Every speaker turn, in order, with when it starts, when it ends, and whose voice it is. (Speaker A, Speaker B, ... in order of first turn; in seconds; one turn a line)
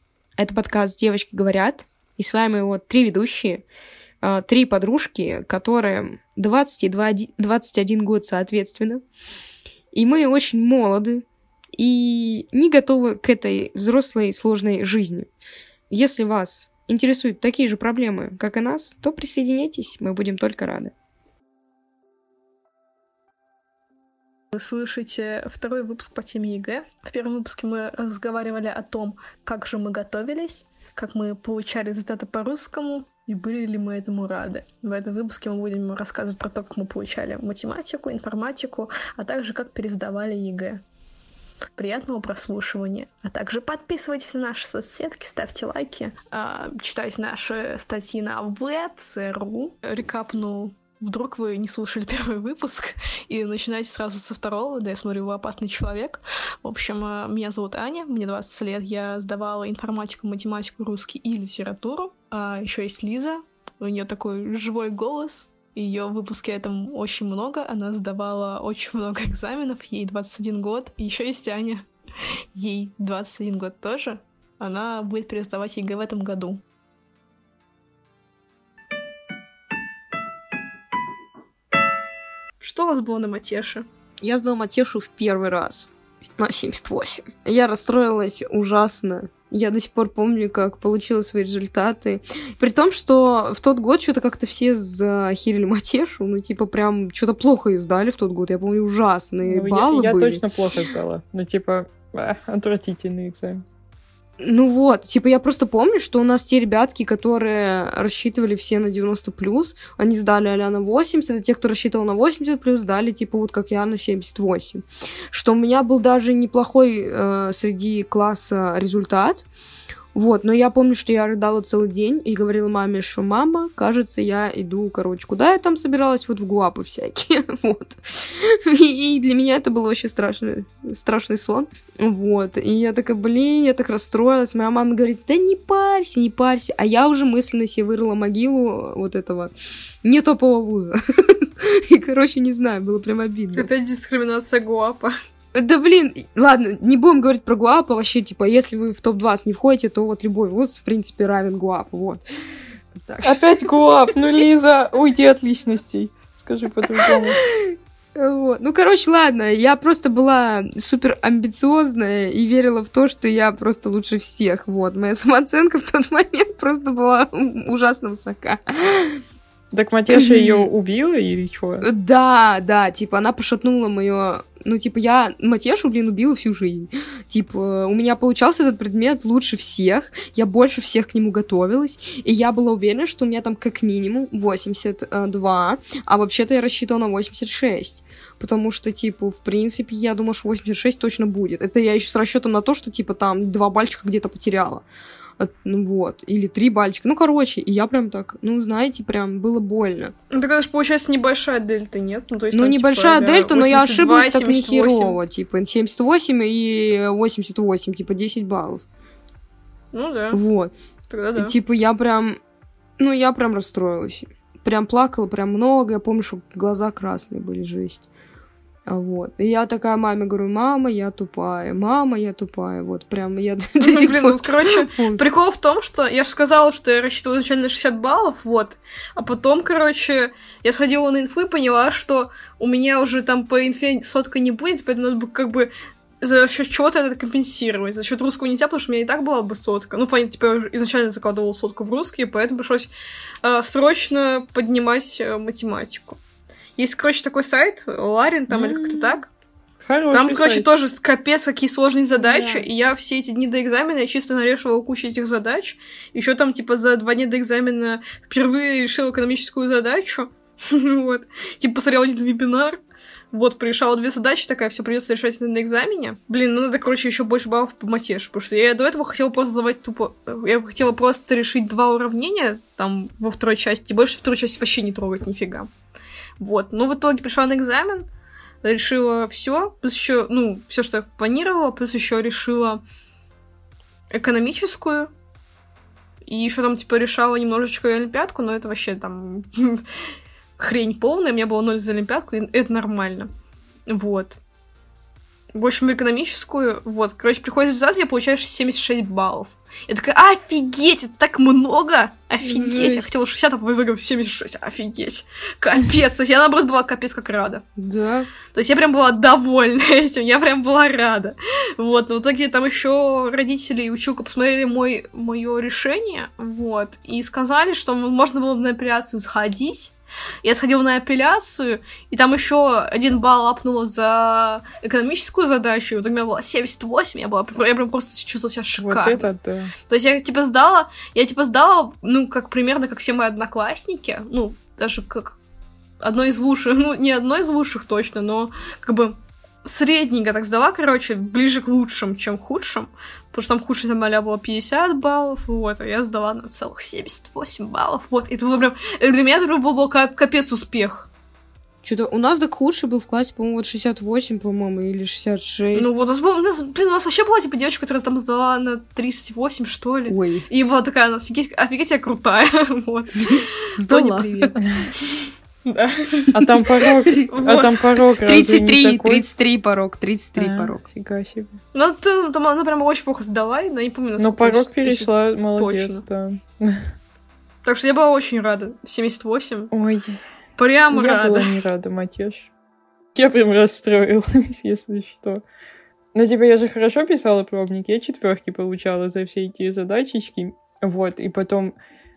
Speaker A: 0.4-3.6
Speaker A: 4.2-9.0
Speaker A: 9.9-11.2
Speaker A: 11.8-15.3
Speaker A: 15.9-20.9
Speaker B: 24.5-40.8
Speaker B: 41.8-71.9
Speaker B: 72.5-76.6
Speaker B: 82.6-83.8
Speaker A: 84.2-100.4
Speaker C: 99.4-103.6
Speaker A: 104.4-119.4
Speaker A: 120.1-139.5
Speaker A: 140.0-143.7
Speaker B: 143.5-145.1
Speaker A: 145.5-152.2
Speaker A: 152.9-153.4
Speaker C: 153.2-157.4
Speaker A: 157.0-169.2
Speaker C: 169.7-171.8
Speaker A: 170.1-170.7
Speaker A: 171.8-194.8
Speaker A: 195.4-200.1
Speaker B: 200.3-205.2
Speaker A: 202.5-208.8
Speaker B: 209.9-210.4
Speaker A: 210.3-210.7
Speaker B: 211.1-211.5
Speaker A: 211.3-212.4
Speaker A: 213.0-218.1
Speaker A: 218.9-225.2
Speaker B: 223.8-235.7
Speaker B: 236.2-242.9
Speaker B: 243.4-246.2
Speaker B: 246.8-249.3
Speaker C: 248.5-249.1
Speaker C: 249.8-250.7
Speaker B: 250.1-262.8
Speaker A: 252.2-252.7
Speaker B: 263.3-275.7
Speaker B: 276.4-278.1
Speaker B: 278.6-282.8
Speaker B: 284.1-285.1
Speaker B: 286.3-289.8
Speaker B: 290.6-293.3
Speaker B: 293.9-294.4
Speaker B: 295.5-307.6
Speaker A: 302.4-303.2
Speaker A: 307.8-308.3
Speaker B: 308.5-329.3
Speaker C: 328.8-329.7
Speaker B: 329.9-335.4
Speaker B: 336.0-351.1
Speaker A: 351.8-355.9
Speaker B: 355.7-364.6
Speaker A: 360.1-360.4
Speaker A: 363.2-364.6
Speaker B: 365.6-366.3
Speaker C: 366.3-369.3
Speaker B: 367.3-367.9
Speaker A: 368.2-370.8
Speaker C: 370.4-371.6
Speaker B: 371.7-376.0
Speaker C: 374.2-376.9
Speaker B: 377.6-379.7
Speaker C: 379.7-380.2
Speaker B: 380.6-381.6
Speaker C: 380.9-382.5
Speaker C: 383.1-385.4
Speaker C: 386.1-391.7